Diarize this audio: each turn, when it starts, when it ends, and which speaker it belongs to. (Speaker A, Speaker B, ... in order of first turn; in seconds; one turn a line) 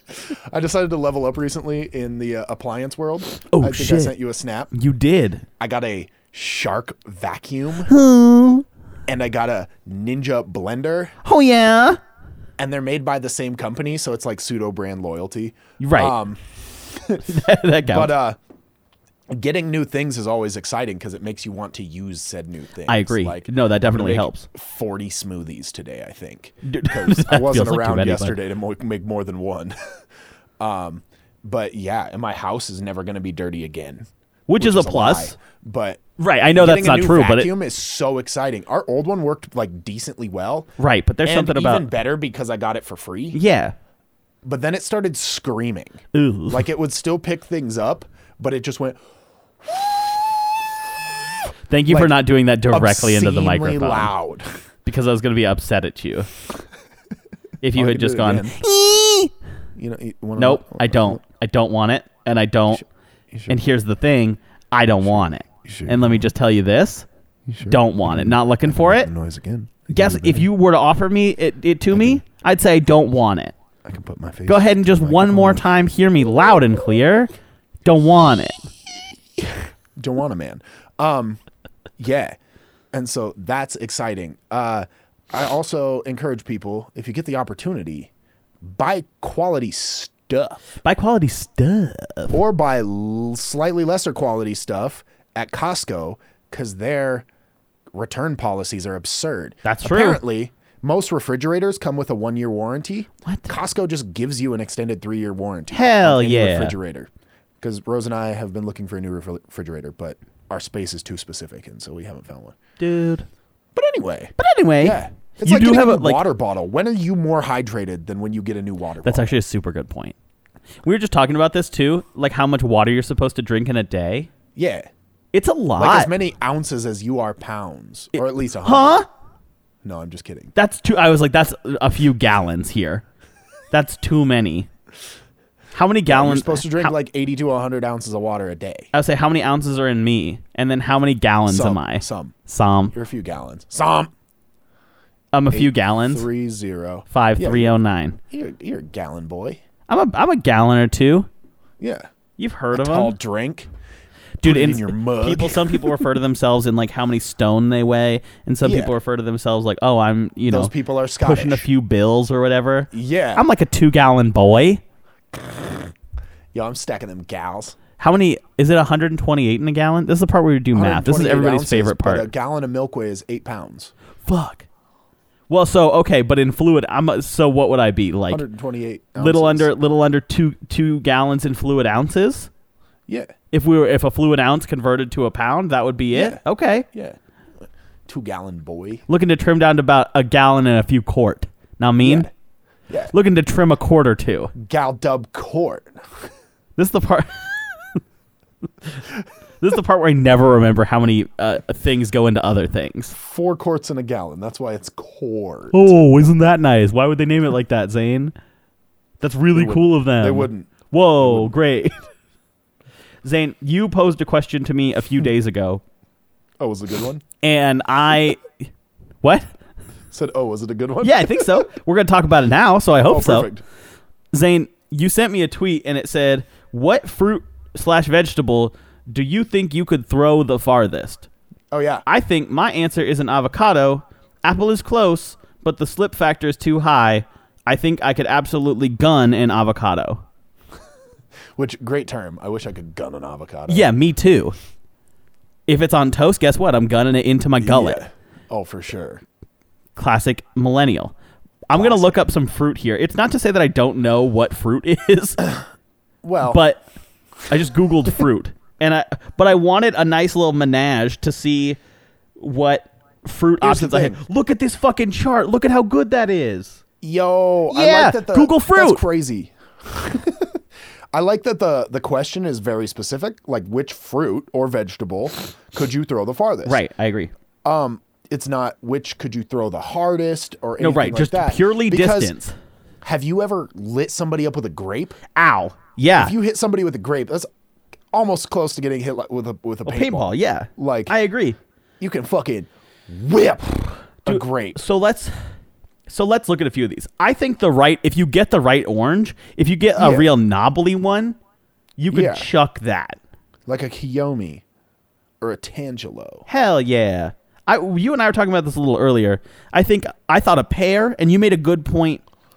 Speaker A: 0.2-4.7
Speaker B: 3.5-4.1
Speaker B: 4.7-5.5
Speaker A: 5.6-7.9
Speaker B: 7.8-8.7
Speaker A: 9.1-11.1
Speaker B: 11.2-12.0
Speaker A: 12.6-17.2
Speaker B: 15.8-16.2
Speaker B: 17.2-18.1
Speaker A: 17.9-18.4
Speaker A: 19.3-29.8
Speaker B: 22.9-24.5
Speaker B: 26.6-28.4
Speaker A: 30.6-36.0
Speaker B: 34.5-35.4
Speaker B: 36.2-37.5
Speaker A: 36.6-40.7
Speaker B: 40.8-41.9
Speaker A: 41.2-43.4
Speaker B: 43.3-43.7
Speaker A: 44.4-49.0
Speaker B: 46.1-46.6
Speaker A: 49.6-50.2
Speaker B: 51.7-54.1
Speaker A: 51.9-52.2
Speaker A: 52.7-54.5
Speaker B: 54.9-56.3
Speaker B: 57.6-59.3
Speaker A: 57.7-58.6
Speaker A: 59.8-61.2
Speaker B: 60.4-62.9
Speaker A: 62.7-63.6
Speaker B: 63.5-67.1
Speaker A: 65.0-66.3
Speaker A: 67.5-70.5
Speaker B: 67.7-69.1
Speaker B: 69.9-73.5
Speaker A: 71.9-72.2
Speaker A: 73.8-75.7
Speaker B: 74.5-77.3
Speaker B: 77.8-78.7
Speaker A: 79.4-81.4
Speaker A: 82.0-82.4
Speaker A: 82.9-88.1
Speaker A: 88.6-90.6
Speaker B: 90.8-92.4
Speaker A: 92.3-97.3
Speaker A: 97.9-107.1
Speaker B: 99.6-100.2
Speaker B: 103.3-103.5
Speaker B: 105.7-106.8
Speaker A: 107.6-112.6
Speaker B: 112.8-113.3
Speaker A: 113.8-119.3
Speaker B: 114.4-116.2
Speaker B: 119.0-120.2
Speaker B: 120.8-124.3
Speaker A: 124.5-124.9
Speaker B: 125.3-126.1
Speaker A: 125.8-129.0
Speaker B: 128.6-129.1
Speaker A: 129.8-130.5
Speaker B: 130.6-133.0
Speaker B: 133.7-134.7
Speaker B: 135.7-136.9
Speaker A: 136.1-138.9
Speaker B: 138.9-142.9
Speaker A: 141.5-142.4
Speaker A: 142.9-144.1
Speaker B: 145.3-146.3
Speaker A: 145.5-147.7
Speaker B: 147.1-148.2
Speaker A: 148.3-149.6
Speaker B: 149.9-151.3
Speaker A: 151.8-152.1
Speaker B: 152.4-153.2
Speaker A: 152.7-153.7
Speaker B: 154.4-164.8
Speaker A: 154.4-156.1
Speaker A: 158.6-158.9
Speaker A: 160.5-161.7
Speaker A: 162.9-163.5
Speaker A: 165.4-165.9
Speaker A: 166.5-167.8
Speaker B: 168.0-172.3
Speaker A: 170.7-173.9
Speaker B: 174.3-174.7
Speaker B: 175.5-178.4
Speaker A: 178.3-179.7
Speaker B: 179.2-182.5
Speaker A: 183.1-183.3
Speaker B: 183.5-186.9
Speaker A: 186.1-186.4
Speaker A: 188.1-189.0
Speaker B: 189.1-192.3
Speaker A: 192.0-192.3
Speaker B: 193.1-194.5
Speaker A: 194.6-196.0
Speaker B: 196.8-198.0
Speaker B: 199.6-203.2
Speaker A: 203.2-205.9
Speaker B: 205.7-208.3
Speaker B: 209.2-212.1
Speaker A: 209.5-211.5
Speaker B: 213.2-215.8
Speaker A: 216.6-217.2
Speaker B: 217.4-218.4
Speaker B: 219.2-219.5
Speaker A: 220.1-221.7
Speaker B: 221.0-223.5
Speaker A: 223.0-223.6
Speaker B: 224.3-231.3
Speaker A: 231.7-232.0
Speaker B: 232.1-240.2
Speaker A: 241.6-243.9
Speaker B: 243.7-244.6
Speaker B: 245.7-248.0
Speaker A: 247.6-249.2
Speaker B: 250.0-251.1
Speaker B: 251.7-255.5
Speaker A: 251.7-252.2
Speaker A: 256.2-256.6
Speaker B: 256.4-256.9
Speaker B: 257.5-261.8
Speaker B: 262.4-266.8
Speaker A: 263.6-264.2
Speaker A: 267.0-270.6
Speaker B: 267.7-269.0
Speaker A: 271.1-276.8
Speaker B: 276.7-277.3
Speaker A: 277.6-282.4
Speaker B: 280.8-282.6
Speaker A: 283.0-285.2
Speaker B: 285.4-286.4
Speaker A: 286.2-287.5
Speaker A: 288.1-291.1
Speaker B: 289.9-291.6
Speaker A: 292.0-294.8
Speaker B: 294.3-295.3
Speaker B: 296.1-301.4
Speaker A: 300.0-300.3
Speaker B: 302.0-303.2
Speaker A: 302.1-302.5
Speaker A: 303.7-304.6
Speaker A: 305.4-306.5
Speaker B: 306.5-312.2